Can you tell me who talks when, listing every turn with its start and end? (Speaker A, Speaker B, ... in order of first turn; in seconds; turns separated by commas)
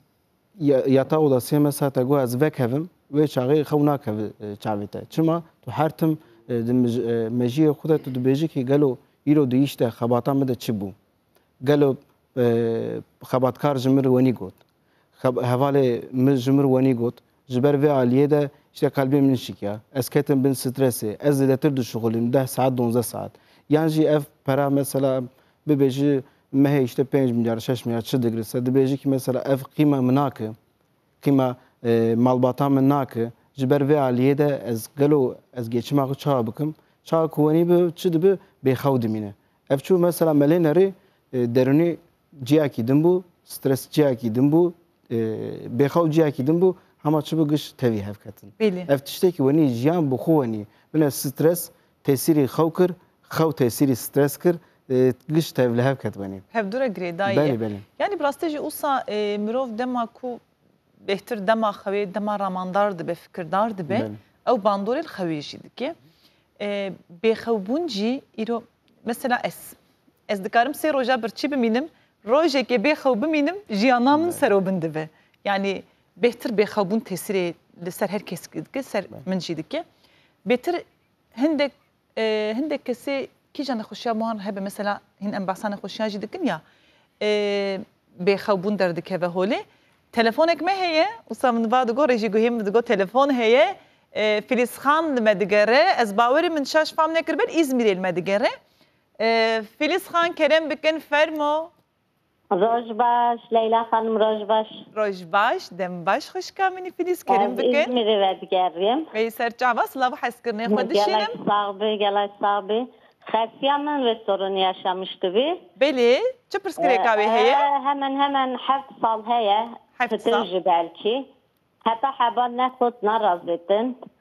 Speaker A: 0.6-10.9, Speaker A: 11.6-14.6, Speaker A: 15.2-30.6, Speaker A: 31.2-56.4, Speaker B: 48.6-48.9, Speaker B: 56.5-60.4, Speaker A: 57.2-57.8, Speaker B: 61.0-65.9, Speaker A: 63.9-64.2, Speaker B: 66.6-69.8, Speaker B: 70.3-79.8, Speaker A: 74.1-74.4, Speaker B: 80.5-80.8, Speaker B: 81.3-86.6, Speaker B: 87.2-98.5, Speaker B: 99.2-101.7, Speaker C: 102.6-104.8, Speaker B: 104.9-107.9, Speaker C: 107.3-109.1, Speaker B: 109.1-111.3, Speaker C: 110.7-115.6, Speaker B: 115.8-117.7, Speaker C: 116.8-121.2, Speaker B: 120.0-120.5, Speaker C: 121.8-124.0